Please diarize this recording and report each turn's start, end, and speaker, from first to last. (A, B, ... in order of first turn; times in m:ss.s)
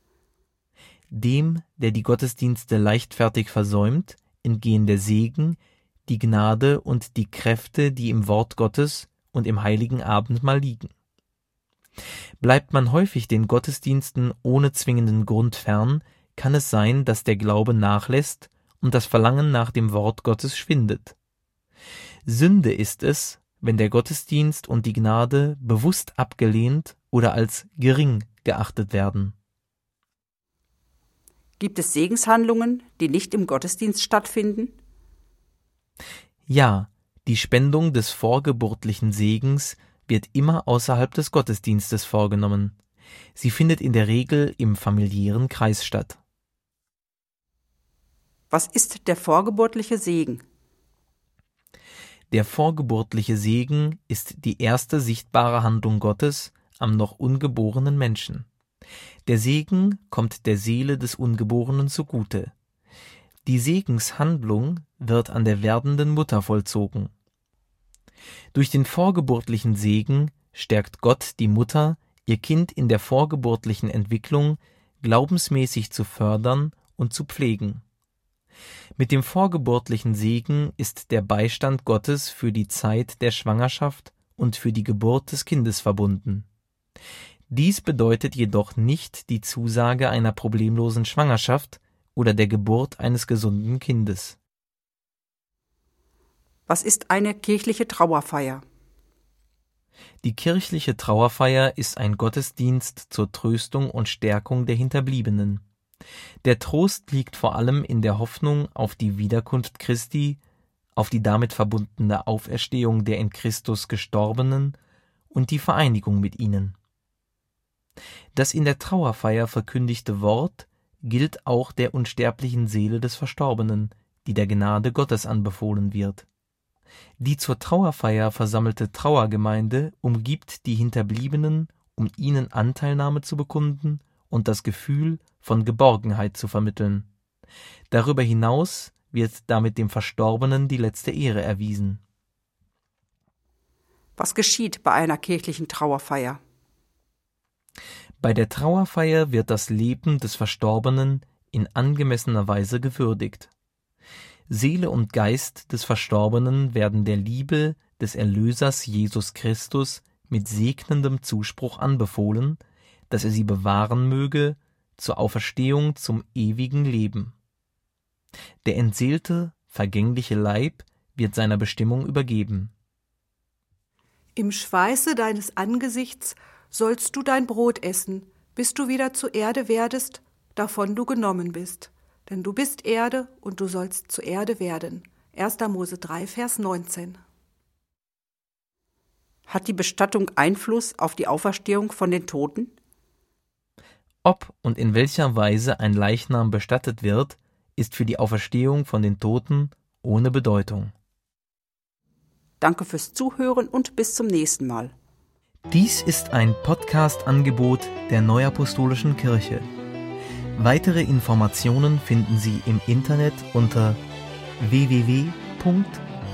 0:01.1-0:10.9 A
0:12.4-0:21.2 A
0:22.3-0:29.3 A
0:31.6-0:34.8 B
0:36.5-0:42.8 A
0:43.4-0:46.2 A
0:48.5-0:50.4 B
0:52.3-0:58.5 A
0:59.3-1:02.5 A
1:03.4-1:07.1 A
1:08.5-1:17.8 A
1:19.0-1:26.5 A
1:27.5-1:34.4 A
1:36.7-1:38.6 B
1:40.2-1:45.6 A
1:46.4-1:50.4 A
1:51.0-1:54.8 A
1:55.3-1:56.8 A
1:58.3-2:06.3 A
2:07.2-2:17.1 A
2:17.9-2:22.0 A
2:24.2-2:26.4 B
2:28.2-2:33.5 A
2:34.5-2:47.4 A
2:48.6-2:52.7 A
2:54.4-3:07.2 C
3:09.5-3:12.7 B
3:14.2-3:20.9 A
3:22.6-3:24.9 B
3:25.7-3:29.7 A
3:30.6-3:34.0 A
3:34.6-3:36.0 A